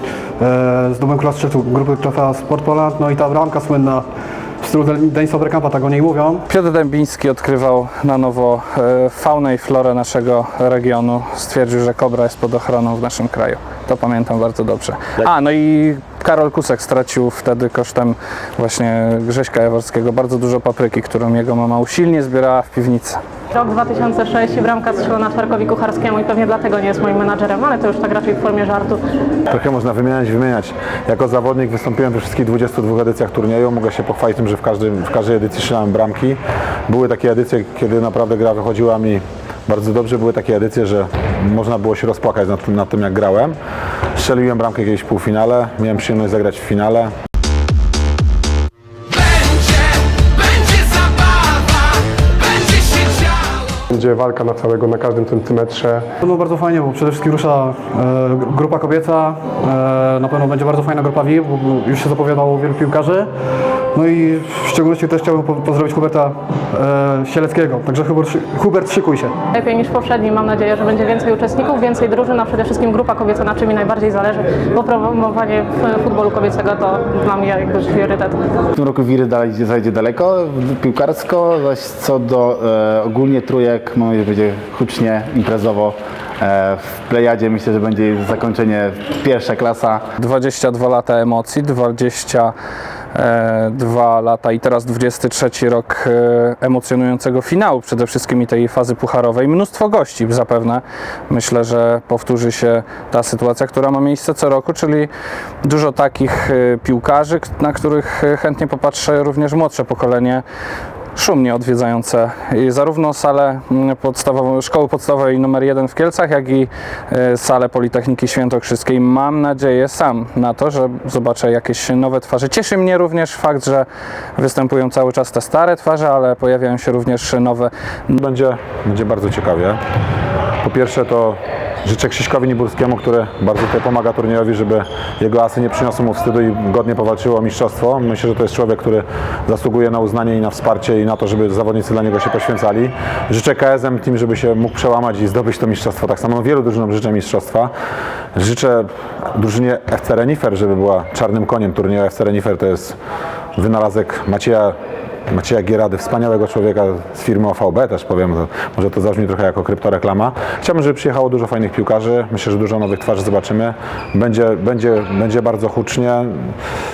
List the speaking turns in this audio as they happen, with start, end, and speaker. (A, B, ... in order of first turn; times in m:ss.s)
0:00.4-0:04.0 A
0:04.6-0:06.4 A
0:06.5-0:23.2 B
0:23.5-0:29.0 C
0:29.5-0:43.6 D
0:44.2-0:47.1 D
0:53.9-0:56.0 E
0:56.2-1:03.3 A
1:03.9-1:09.3 A
1:09.5-1:18.4 C
1:18.7-1:30.0 F
1:30.2-1:32.5 B
1:33.1-1:45.1 B
1:45.6-1:50.4 B
1:51.1-2:08.2 B
2:08.2-2:09.8 D
2:10.6-2:27.7 D
2:28.3-2:33.0 D
2:33.6-2:34.8 D
2:35.3-2:46.5 D